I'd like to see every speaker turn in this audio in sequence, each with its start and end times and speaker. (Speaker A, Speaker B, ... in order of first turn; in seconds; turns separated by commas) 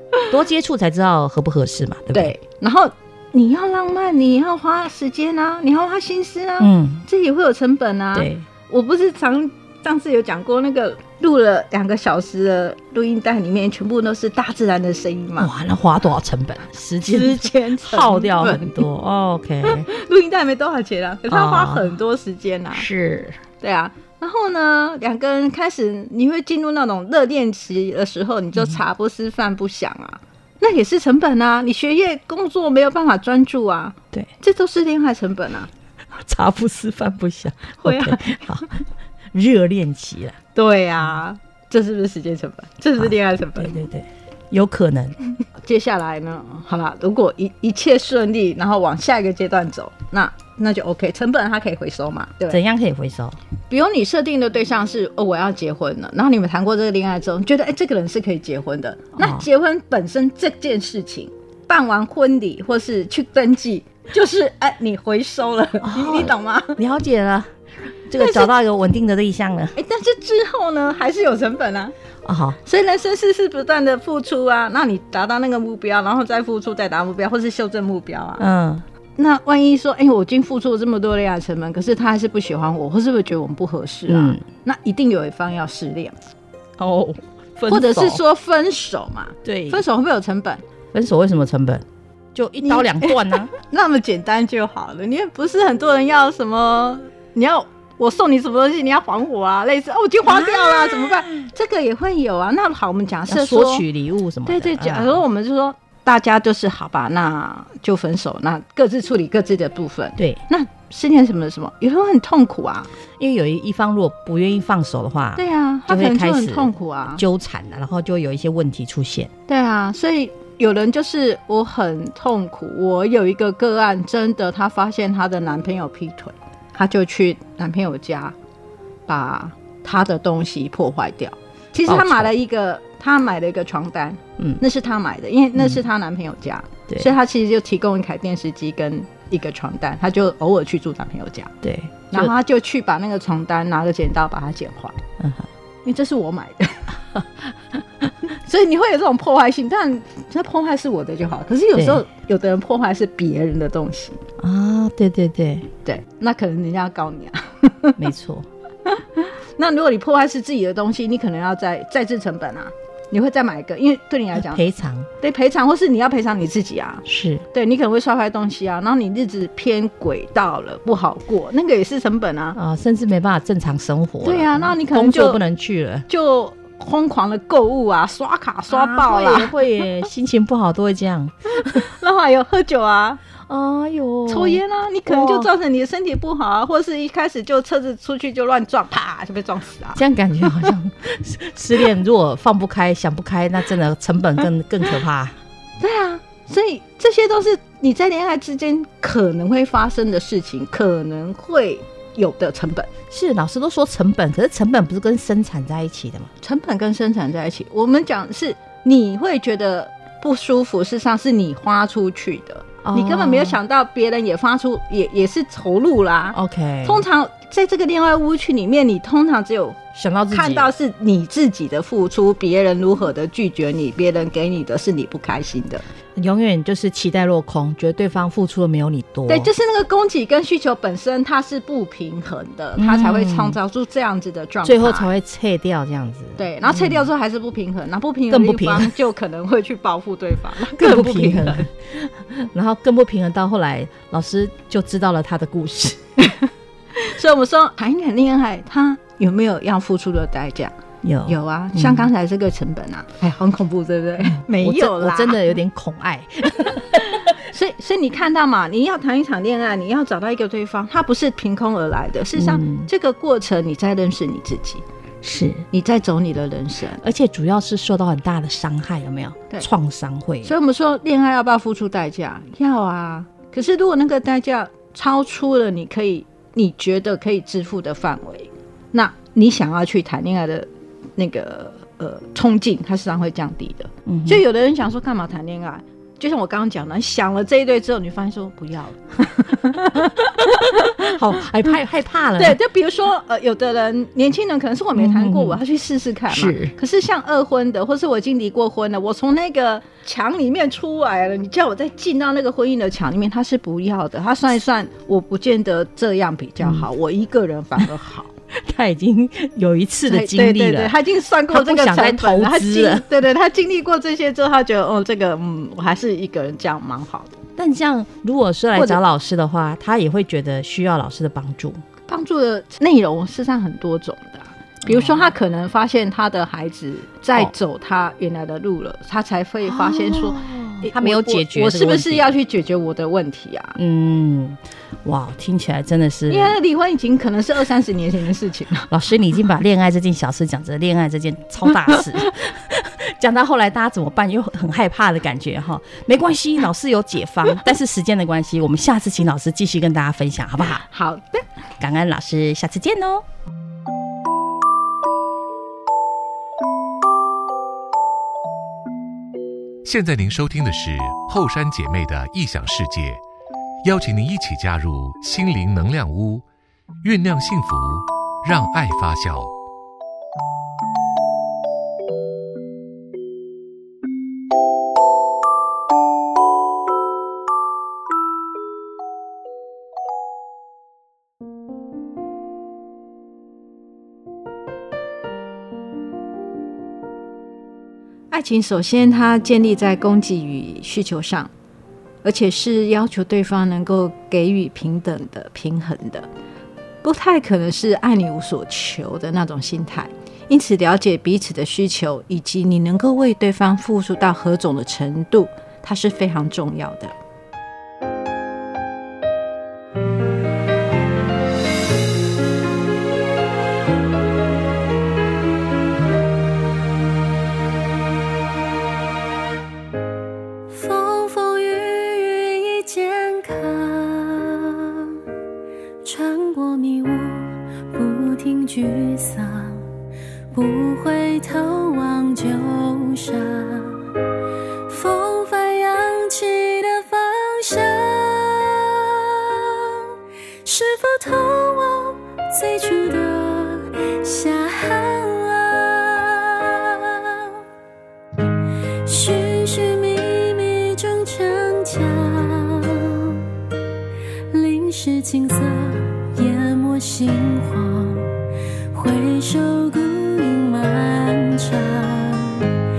Speaker A: 0.3-2.3, Speaker B: 2.1-15.5, Speaker A: 6.6-7.0, Speaker A: 8.1-8.4, Speaker A: 15.4-19.9, Speaker B: 17.0-18.8, Speaker B: 19.6-22.9, Speaker A: 21.3-21.9, Speaker A: 22.7-23.4, Speaker B: 23.6-35.7, Speaker A: 36.2-38.7, Speaker B: 37.8-38.5, Speaker A: 39.3-40.4, Speaker B: 40.5-43.9, Speaker A: 43.0-45.1, Speaker B: 45.5-52.6, Speaker A: 52.5-53.4, Speaker B: 53.7-66.8, Speaker A: 59.2-59.4, Speaker A: 65.8-67.5, Speaker A: 68.1-69.8, Speaker B: 68.2-68.5, Speaker B: 69.7-71.9, Speaker A: 72.2-72.6, Speaker B: 72.6-78.5, Speaker A: 78.4-78.8, Speaker B: 79.2-86.2, Speaker A: 84.1-84.4, Speaker A: 86.8-88.2, Speaker B: 87.7-90.6, Speaker A: 89.4-89.8, Speaker A: 90.9-91.8, Speaker A: 92.3-93.5, Speaker B: 92.6-103.8, Speaker A: 103.3-105.2, Speaker B: 104.4-112.9, Speaker A: 113.2-119.3, Speaker B: 115.3-117.2, Speaker B: 119.5-128.3, Speaker B: 129.1-141.5, Speaker A: 131.8-132.3, Speaker A: 141.6-142.3, Speaker B: 142.1-145.0, Speaker A: 145.2-145.5, Speaker B: 145.8-147.0, Speaker B: 148.2-154.2, Speaker A: 151.7-152.0, Speaker A: 154.4-155.7, Speaker B: 155.8-158.0, Speaker A: 158.0-158.5, Speaker B: 158.8-164.6, Speaker A: 164.3-165.1, Speaker B: 165.2-172.6, Speaker A: 167.1-167.4, Speaker A: 172.5-176.1, Speaker B: 174.2-175.4, Speaker B: 176.1-179.5, Speaker A: 178.7-181.8, Speaker B: 181.5-183.2, Speaker A: 183.5-185.5, Speaker B: 184.3-190.7, Speaker A: 189.9-195.3, Speaker B: 195.8-202.9, Speaker A: 203.1-206.3, Speaker B: 206.4-225.8, Speaker A: 212.8-213.6, Speaker A: 216.3-217.0, Speaker A: 219.9-220.7, Speaker A: 226.1-229.5, Speaker B: 229.3-235.1, Speaker A: 232.8-233.6, Speaker A: 234.6-237.1, Speaker B: 236.4-241.7, Speaker A: 238.3-238.9, Speaker A: 240.6-246.0, Speaker B: 246.2-250.7, Speaker A: 251.0-252.1, Speaker B: 251.2-255.5, Speaker A: 254.3-257.2, Speaker B: 257.2-264.8, Speaker A: 262.4-262.9, Speaker A: 265.2-265.7, Speaker B: 265.7-267.1, Speaker A: 267.0-270.5, Speaker B: 270.4-291.1, Speaker A: 284.1-284.4, Speaker A: 289.9-292.6, Speaker B: 292.4-308.3, Speaker A: 294.9-295.6, Speaker A: 296.3-296.7, Speaker A: 308.6-310.9, Speaker B: 310.1-317.4, Speaker A: 311.5-313.1, Speaker A: 317.6-321.8, Speaker B: 318.7-319.0, Speaker B: 322.1-333.8, Speaker A: 324.9-325.3, Speaker A: 329.6-332.4, Speaker A: 333.8-336.6, Speaker B: 336.3-338.9, Speaker A: 338.9-350.8, Speaker B: 350.8-351.4, Speaker A: 351.8-353.2, Speaker C: 359.8-363.2, Speaker C: 363.8-366.4, Speaker C: 367.0-369.5, Speaker B: 388.3-391.5, Speaker B: 392.2-396.3, Speaker B: 397.0-407.1, Speaker D: 420.7-425.1, Speaker D: 426.0-429.8, Speaker D: 430.5-434.1, Speaker D: 434.9-440.0, Speaker D: 440.6-447.5, Speaker D: 449.0-453.4, Speaker D: 454.5-458.3, Speaker D: 458.9-462.7